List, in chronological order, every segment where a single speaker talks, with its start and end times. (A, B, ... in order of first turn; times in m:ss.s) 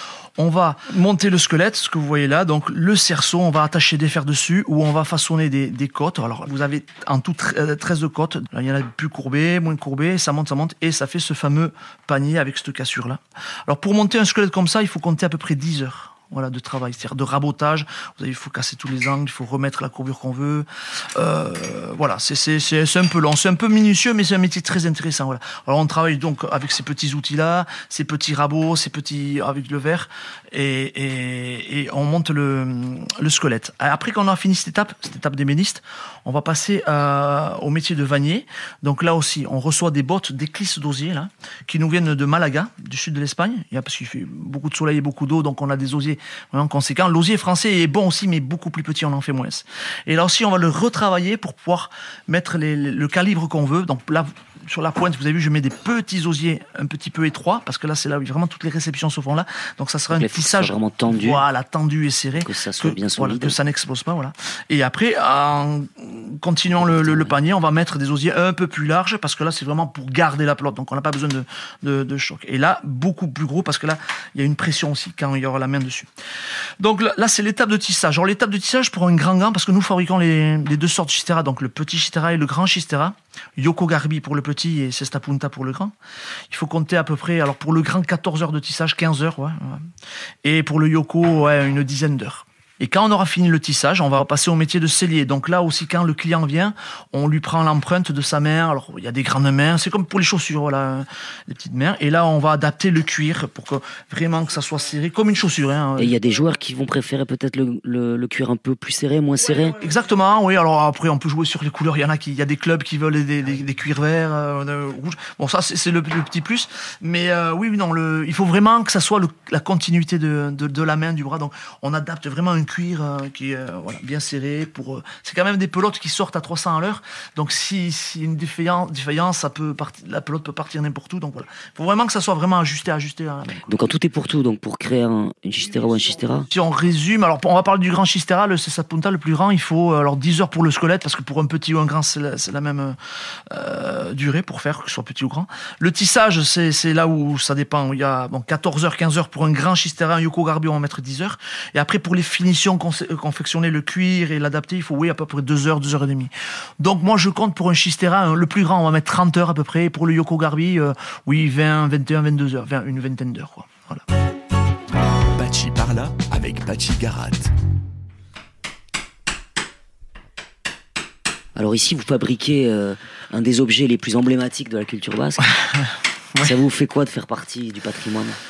0:00.4-1:16.1 A
1:00.1-1:01.4 B
1:02.4-1:03.6 B
1:06.8-1:07.3 B
1:16.8-1:25.9 A
1:26.5-1:29.9 A
1:30.4-1:46.2 A
1:46.0-1:49.8 B
1:49.8-2:13.8 A
2:13.7-2:16.5 B
2:16.5-2:44.0 A
2:45.4-2:47.5 C
2:51.6-2:55.5 B
2:55.4-2:56.5 A
2:56.4-2:58.4 B